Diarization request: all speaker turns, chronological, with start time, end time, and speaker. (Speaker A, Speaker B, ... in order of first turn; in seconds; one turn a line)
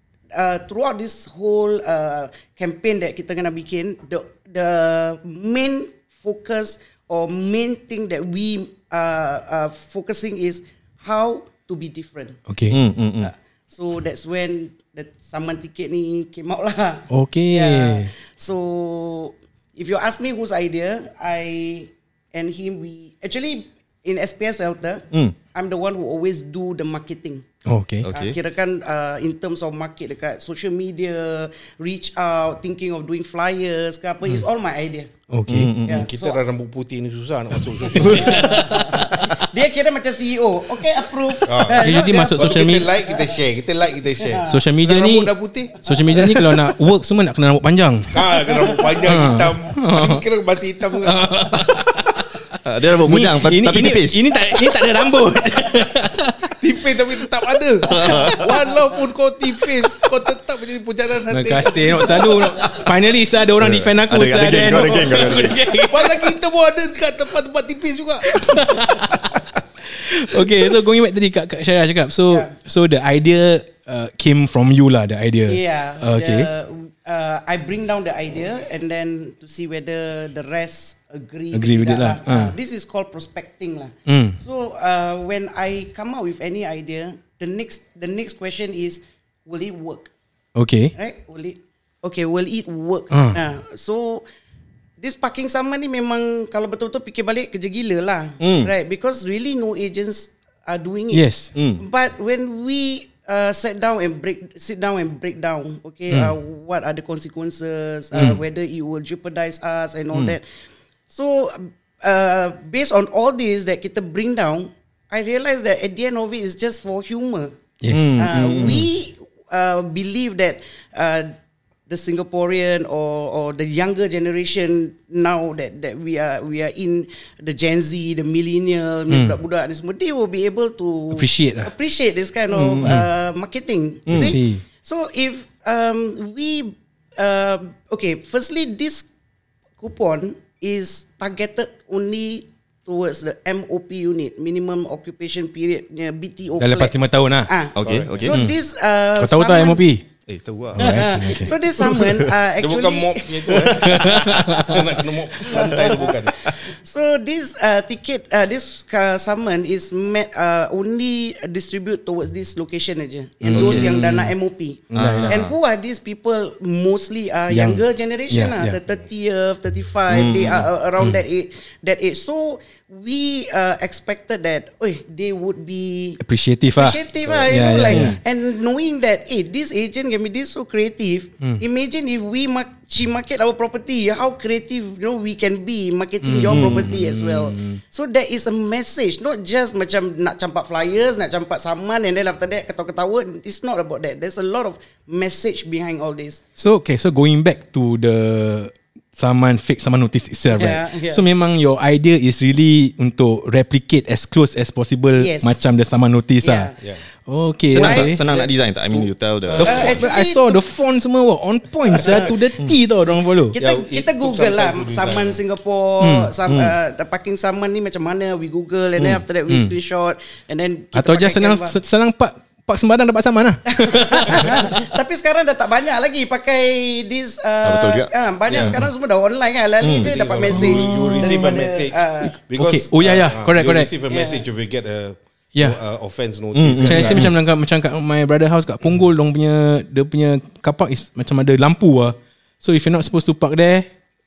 Speaker A: 0.3-12.4
Speaker B: 12.5-12.8
Speaker C: 12.7-13.3
Speaker A: 13.2-27.4
Speaker B: 17.1-18.1
Speaker C: 25.1-25.4
Speaker B: 27.7-28.1
Speaker C: 28.0-28.4
Speaker A: 28.1-35.1
Speaker B: 35.3-35.7
Speaker C: 35.5-36.1
Speaker A: 35.9-36.4
Speaker D: 35.9-38.7
Speaker B: 37.8-39.4
Speaker C: 38.0-39.0
Speaker A: 38.1-43.3
Speaker D: 41.5-46.4
Speaker B: 41.7-42.9
Speaker A: 44.2-44.6
Speaker B: 44.5-48.2
Speaker A: 45.9-46.4
Speaker D: 48.1-51.7
Speaker A: 48.5-49.1
Speaker B: 49.0-50.2
Speaker B: 51.0-52.4
Speaker C: 52.6-54.4
Speaker B: 52.9-56.5
Speaker D: 56.5-62.8
Speaker C: 57.9-58.5
Speaker B: 61.3-66.3
Speaker C: 63.6-65.7
Speaker D: 65.8-69.0
Speaker B: 68.3-69.4
Speaker A: 68.8-69.2
Speaker B: 69.9-76.5
Speaker A: 75.5-90.1
Speaker B: 81.5-82.5
Speaker B: 84.1-84.4
Speaker B: 90.5-90.9
Speaker A: 90.9-94.2
Speaker B: 93.1-93.4
Speaker A: 95.0-101.2
Speaker C: 98.4-98.7
Speaker B: 101.1-101.5
Speaker C: 101.5-101.8
Speaker A: 101.8-110.4
Speaker A: 111.1-117.5
Speaker B: 117.8-118.3
Speaker C: 117.9-118.9
Speaker A: 118.2-121.3
Speaker A: 121.9-139.1
Speaker B: 129.1-129.4
Speaker B: 131.1-131.7
Speaker C: 132.5-133.1
Speaker B: 132.8-133.1
Speaker C: 134.1-134.3
Speaker B: 134.1-134.6
Speaker A: 139.8-149.8
Speaker B: 146.6-147.5
Speaker C: 147.8-148.4
Speaker D: 147.8-148.2
Speaker B: 148.2-148.6
Speaker B: 149.2-150.1
Speaker C: 150.3-152.3
Speaker B: 150.8-151.6
Speaker A: 150.8-154.8
Speaker D: 152.6-156.5
Speaker C: 153.6-154.6
Speaker B: 153.8-154.8
Speaker A: 155.4-176.2
Speaker B: 163.4-164.3
Speaker C: 163.5-164.2
Speaker B: 164.9-165.3
Speaker C: 164.9-165.6
Speaker B: 167.5-168.8
Speaker C: 170.1-170.7
Speaker B: 176.2-178.2
Speaker A: 176.8-196.4
Speaker C: 177.9-178.2
Speaker B: 186.2-187.8
Speaker C: 186.5-186.9
Speaker B: 196.6-206.7
Speaker A: 200.5-201.3
Speaker A: 205.2-205.6
Speaker A: 206.4-206.8
Speaker D: 206.8-207.0
Speaker B: 207.3-208.2
Speaker C: 207.7-209.9
Speaker A: 207.8-208.2
Speaker D: 208.2-210.0
Speaker B: 209.6-213.6
Speaker A: 209.6-210.6
Speaker D: 211.9-212.3
Speaker A: 211.9-212.3
Speaker A: 213.5-221.8
Speaker D: 213.6-215.4
Speaker B: 216.0-216.3
Speaker C: 216.4-216.8
Speaker C: 219.0-219.2
Speaker B: 219.5-219.7
Speaker B: 220.9-224.7
Speaker A: 223.7-232.3
Speaker C: 227.6-228.8
Speaker D: 228.5-228.8
Speaker C: 229.8-230.1
Speaker D: 229.9-237.3
Speaker B: 230.5-231.5
Speaker B: 232.5-233.9
Speaker A: 234.1-234.4
Speaker C: 236.5-237.3
Speaker B: 236.8-243.9